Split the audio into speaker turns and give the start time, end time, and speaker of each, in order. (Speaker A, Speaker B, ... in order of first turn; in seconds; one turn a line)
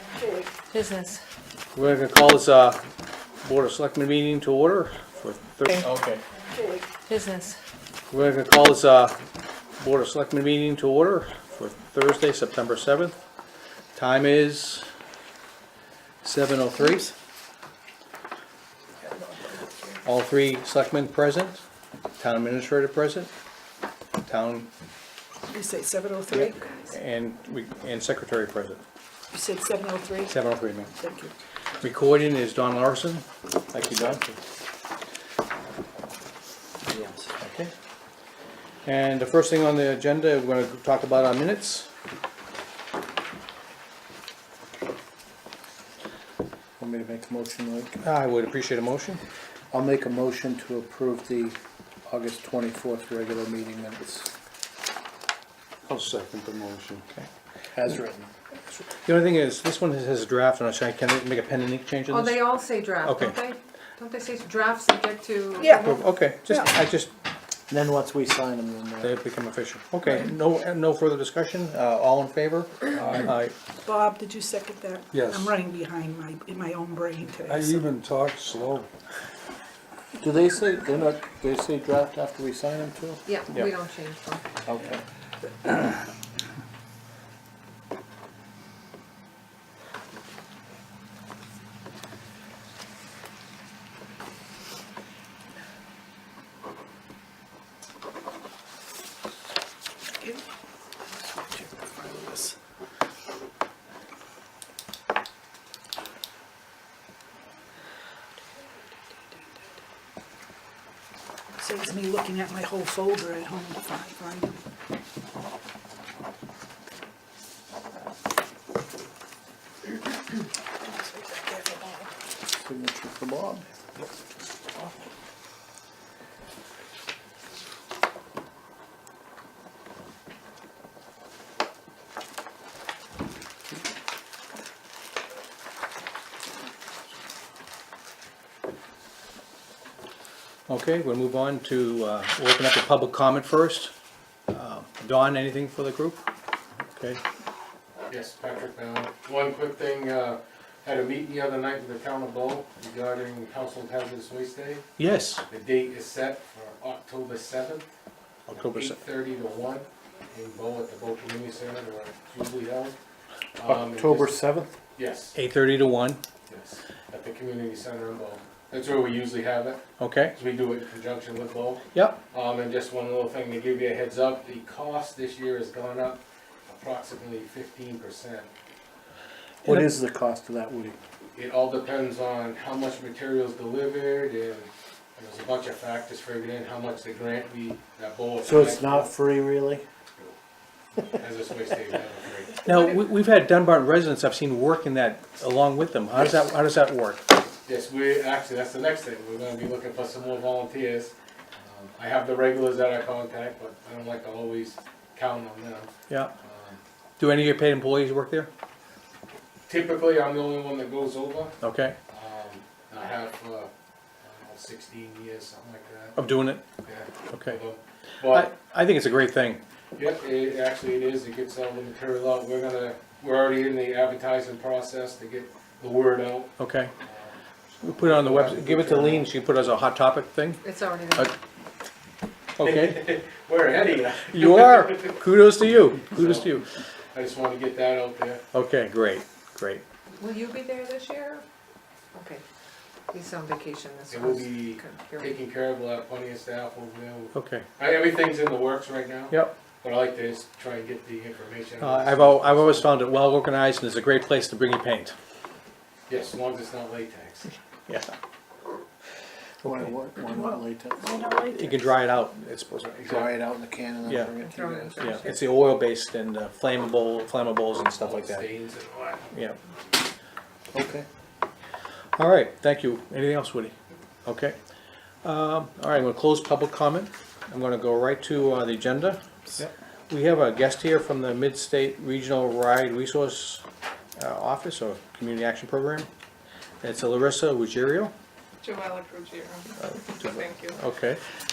Speaker A: 0.1-0.5
Speaker B: 0.7-1.2
Speaker C: 1.7-2.8
Speaker C: 3.4-6.2
Speaker A: 6.5-6.9
Speaker B: 7.1-7.6
Speaker C: 8.1-9.2
Speaker C: 9.8-13.2
Speaker C: 13.9-14.8
Speaker C: 16.2-17.1
Speaker A: 19.0-20.0
Speaker C: 20.0-21.6
Speaker C: 22.2-23.3
Speaker C: 24.2-24.7
Speaker A: 25.5-26.7
Speaker C: 26.3-28.8
Speaker A: 29.3-30.4
Speaker C: 30.3-30.9
Speaker A: 30.9-31.3
Speaker C: 31.8-34.2
Speaker C: 37.4-37.7
Speaker C: 38.8-41.9
Speaker D: 46.8-48.0
Speaker C: 48.0-49.2
Speaker D: 49.7-54.3
Speaker E: 55.9-57.0
Speaker D: 57.7-58.3
Speaker C: 59.0-62.5
Speaker B: 62.1-66.0
Speaker C: 63.0-63.4
Speaker C: 65.8-67.1
Speaker D: 67.7-69.1
Speaker C: 69.0-73.5
Speaker E: 72.9-73.3
Speaker A: 73.8-77.9
Speaker E: 75.1-75.6
Speaker E: 77.4-78.9
Speaker D: 80.2-83.2
Speaker B: 83.2-84.4
Speaker D: 84.6-85.0
Speaker A: 101.1-102.5
Speaker A: 111.6-114.5
Speaker A: 120.8-122.1
Speaker D: 122.5-123.7
Speaker C: 140.7-143.9
Speaker C: 144.5-146.2
Speaker C: 146.9-147.2
Speaker F: 148.1-154.8
Speaker C: 155.0-155.4
Speaker F: 155.5-157.8
Speaker C: 158.5-159.0
Speaker F: 158.6-162.9
Speaker F: 163.6-164.3
Speaker D: 163.6-164.7
Speaker F: 164.9-165.4
Speaker C: 165.3-166.2
Speaker F: 166.5-169.8
Speaker C: 170.0-170.3
Speaker F: 170.3-178.5
Speaker C: 171.9-172.2
Speaker D: 179.6-180.9
Speaker C: 179.6-179.9
Speaker F: 181.3-189.1
Speaker D: 188.4-189.8
Speaker F: 191.1-192.6
Speaker C: 192.6-197.2
Speaker F: 197.7-206.8
Speaker C: 207.2-208.5
Speaker F: 209.7-211.6
Speaker C: 211.6-212.0
Speaker F: 212.1-213.7
Speaker F: 214.2-216.2
Speaker C: 216.2-216.6
Speaker F: 216.8-218.5
Speaker C: 217.3-217.6
Speaker C: 218.3-219.6
Speaker F: 219.9-227.3
Speaker C: 226.6-226.9
Speaker C: 227.8-230.6
Speaker F: 228.0-229.3
Speaker B: 230.6-231.3
Speaker C: 232.6-233.0
Speaker F: 232.6-235.2
Speaker C: 234.3-236.6
Speaker F: 236.1-236.5
Speaker F: 237.1-238.4
Speaker C: 238.5-239.8
Speaker B: 240.2-241.4
Speaker B: 242.1-242.4
Speaker B: 243.1-245.4
Speaker F: 244.1-252.9
Speaker C: 247.3-247.7
Speaker C: 251.8-255.1
Speaker F: 256.1-257.5
Speaker C: 257.9-258.1
Speaker D: 259.6-261.0
Speaker A: 261.0-261.7
Speaker C: 261.5-263.1
Speaker F: 262.9-263.3
Speaker D: 263.0-265.1
Speaker C: 264.0-264.3
Speaker B: 264.4-265.4
Speaker C: 265.0-268.4
Speaker F: 268.0-269.3
Speaker C: 269.3-269.6
Speaker D: 270.7-271.1
Speaker C: 272.1-273.7
Speaker C: 274.2-274.6
Speaker C: 275.2-279.2
Speaker C: 280.1-283.6
Speaker C: 284.2-286.1
Speaker C: 286.8-288.1
Speaker G: 288.6-290.8
Speaker C: 289.8-291.2